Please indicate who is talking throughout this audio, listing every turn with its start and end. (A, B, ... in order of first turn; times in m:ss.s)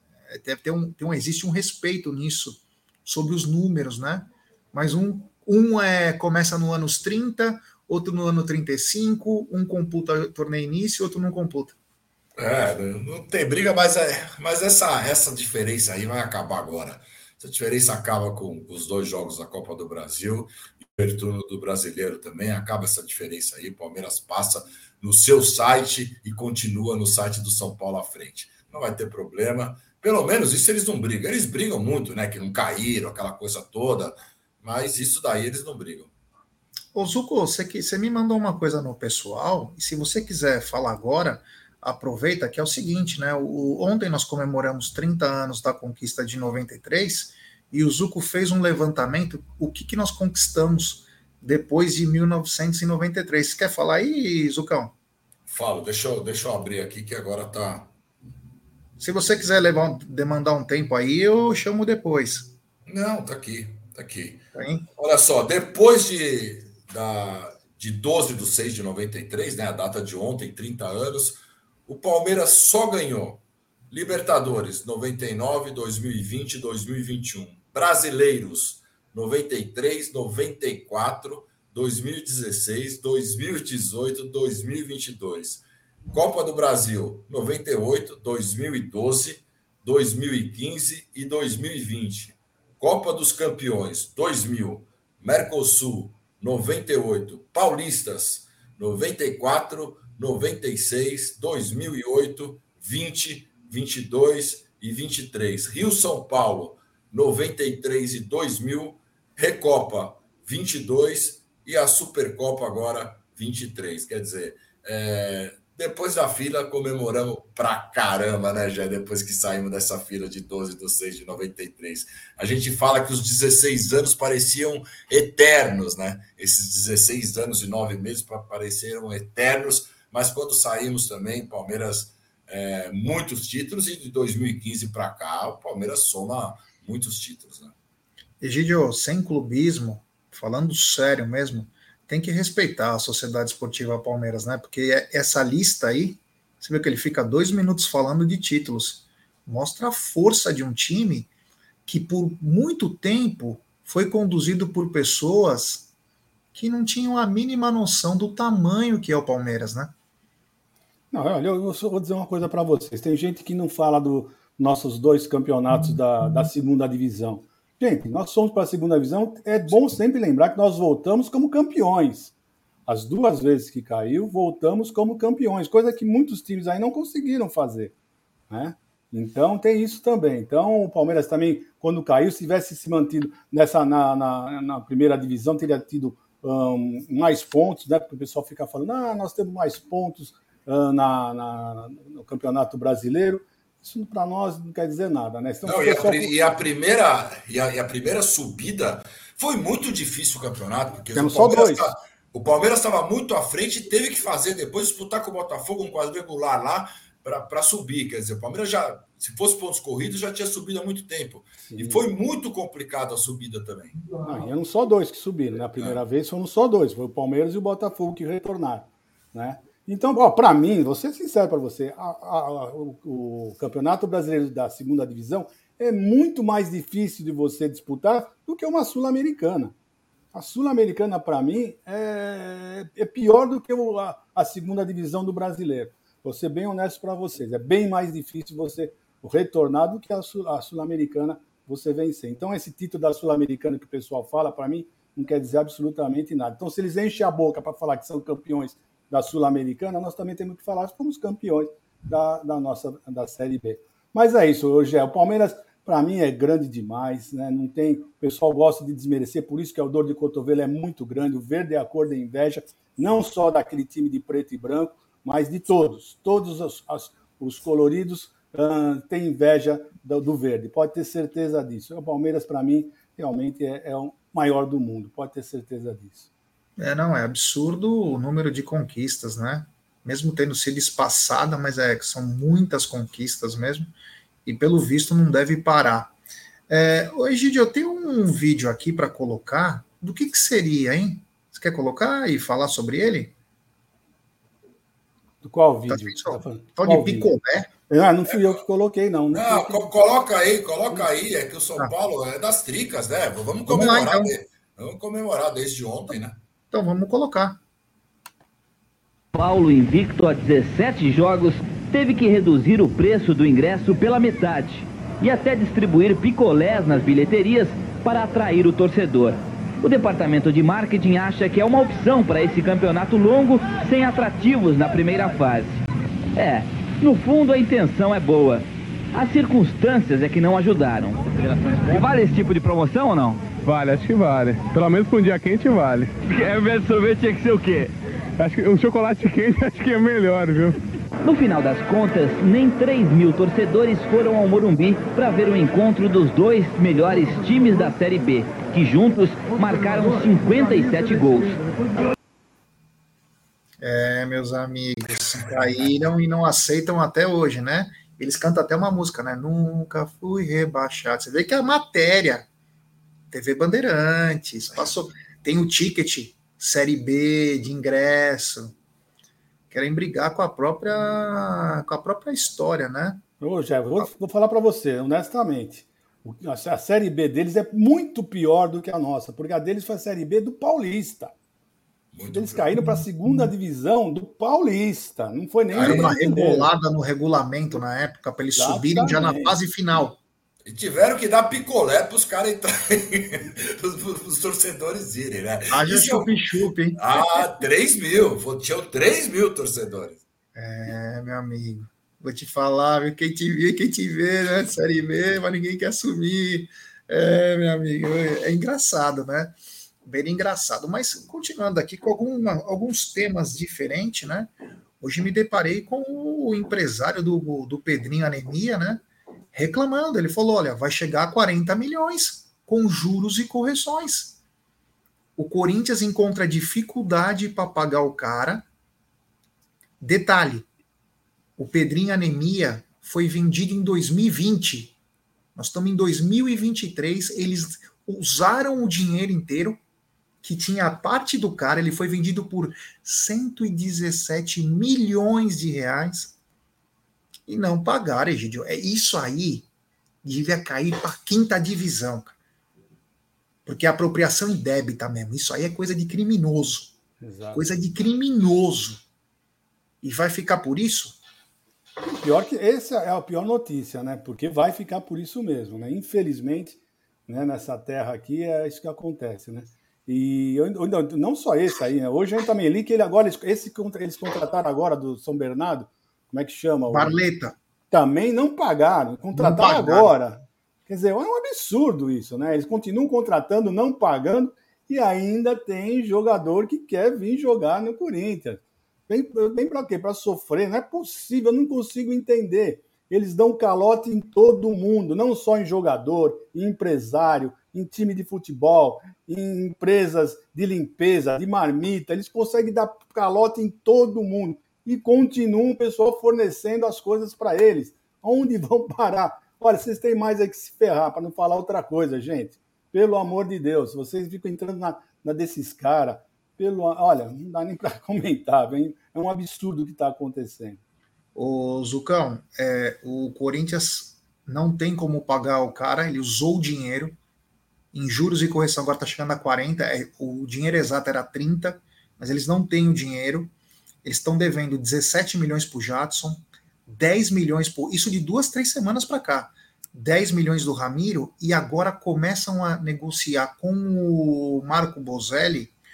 0:00.3-0:11.8 A
0:12.4-0:36.1 B
0:36.9-0:54.9 A
0:55.5-0:57.9 B
0:59.0-1:02.5 A
1:02.9-1:04.4 B
1:04.6-1:04.8 A
1:05.0-2:17.7 B
2:18.4-2:31.3 A
2:31.9-2:35.9 A
2:36.5-2:39.9 A
2:41.1-2:52.3 C
2:52.9-2:57.9 C
2:58.5-3:16.4 C
3:15.6-3:34.1 B
3:21.2-3:21.8 C
3:31.7-3:32.0 C
3:34.2-3:49.8 C
3:50.3-4:36.3 C
4:36.8-4:43.9 A
4:44.4-4:46.1 A
4:46.7-4:53.3 A
4:55.4-4:57.3 C
4:55.9-4:57.7 A
4:57.9-4:59.9 C
4:58.3-4:58.6 B
4:59.3-5:06.4 B
5:03.7-5:04.3 A
5:06.7-5:07.6 A
5:09.3-5:25.8 D
5:26.4-5:33.6 D
5:33.6-5:36.3 E
5:36.3-5:37.9 D
5:38.4-5:40.8 E
5:41.2-5:51.6 D
5:53.8-6:02.5 A
6:03.3-6:08.7 A
6:09.7-6:13.2 A
6:13.4-6:21.3 C
6:22.1-6:22.8 B
6:22.3-6:26.7 C
6:25.7-6:26.1 B
6:25.8-6:30.2 A
6:28.6-6:29.6 C
6:30.7-6:36.3 B
6:35.7-6:37.5 A
6:37.0-6:40.2 B
6:40.6-6:59.0 A
6:59.5-7:04.4 A
7:05.4-7:08.7 A
7:10.0-7:10.7 A
7:11.6-7:15.0 A
7:15.6-7:19.8 A
7:20.4-7:26.3 A
7:27.5-7:29.7 A
7:30.2-7:32.4 A
7:33.7-7:37.0 A
7:37.2-7:37.6 C
7:37.5-7:39.0 A
7:40.0-7:41.2 A
7:42.1-7:57.2 C
7:56.9-7:57.6 A
7:57.9-8:40.8 C
7:59.3-8:00.1 A
8:41.4-8:47.2 A
8:47.9-8:53.5 A
8:54.0-9:05.7 A